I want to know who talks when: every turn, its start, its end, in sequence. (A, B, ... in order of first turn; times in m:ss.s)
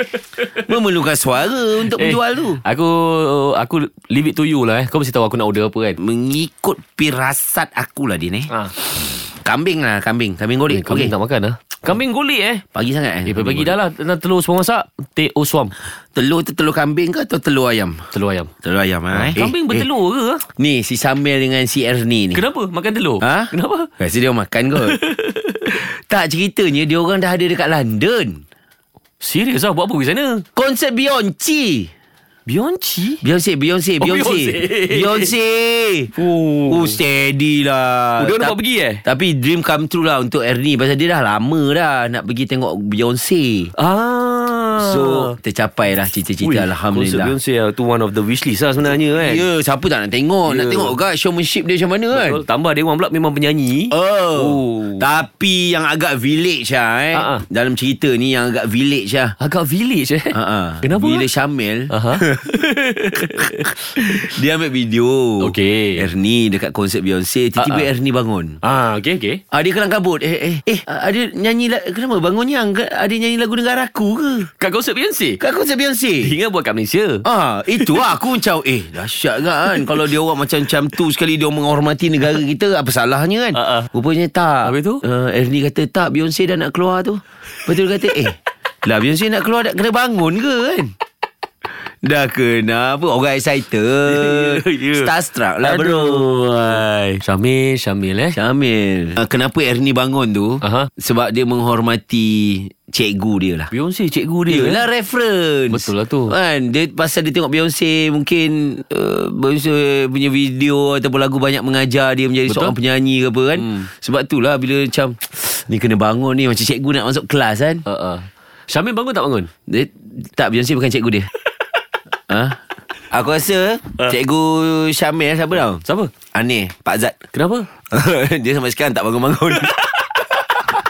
0:00.6-0:02.6 A
0:01.8-0:06.0 B
0:06.0-0:11.1 A
0:10.7-0:12.6 B
0:12.7-0:13.8 A
0:13.3-0:15.7 B
0:16.1-0:18.1 A
0:18.1-0:18.5 B
0:18.6-0:19.9 A
0:19.1-0:20.4 B
0:20.6-0:22.4 A
0:22.3-0:23.9 B
0:23.2-0:25.0 A
0:24.8-0:25.8 B
0:25.7-0:28.4 A
0:29.2-0:30.4 B
0:30.6-0:31.9 A
0:32.4-0:33.2 B
0:33.2-0:36.1 A
0:34.0-0:35.3 B
0:36.1-0:37.0 B
0:36.7-0:43.7 A
0:38.2-0:39.0 B
0:43.8-0:45.3 B
0:44.8-0:47.3 A
0:46.4-0:49.5 B
0:48.8-0:52.4 A
0:50.5-0:51.0 B
0:52.1-0:55.0 B
0:53.9-0:59.4 A
0:57.1-0:57.4 B
0:59.4-1:01.2 B
1:00.3-1:02.6 A
1:01.9-1:04.2 B
1:03.4-1:08.6 A
1:05.4-1:06.1 B
1:07.6-1:07.9 B
1:08.6-1:09.4 B
1:09.5-1:14.5 A
1:14.6-1:15.4 B
1:15.4-1:16.3 A
1:16.2-1:18.0 B
1:17.2-1:30.9 A
1:23.6-1:23.9 B
1:24.6-1:25.0 B
1:32.0-1:36.8 A
1:34.1-1:35.1 B
1:35.6-1:38.4 B
1:38.3-1:43.7 A
1:40.6-1:40.9 B
1:43.7-1:44.9 B
1:44.5-1:57.8 A
1:45.7-1:46.3 B
1:52.5-1:52.8 B
1:57.8-1:59.5 B
1:59.7-2:01.3 A
2:02.3-2:05.8 A
2:05.7-2:06.1 B
2:06.3-2:07.2 A
2:07.3-2:07.7 B
2:07.9-2:10.4 A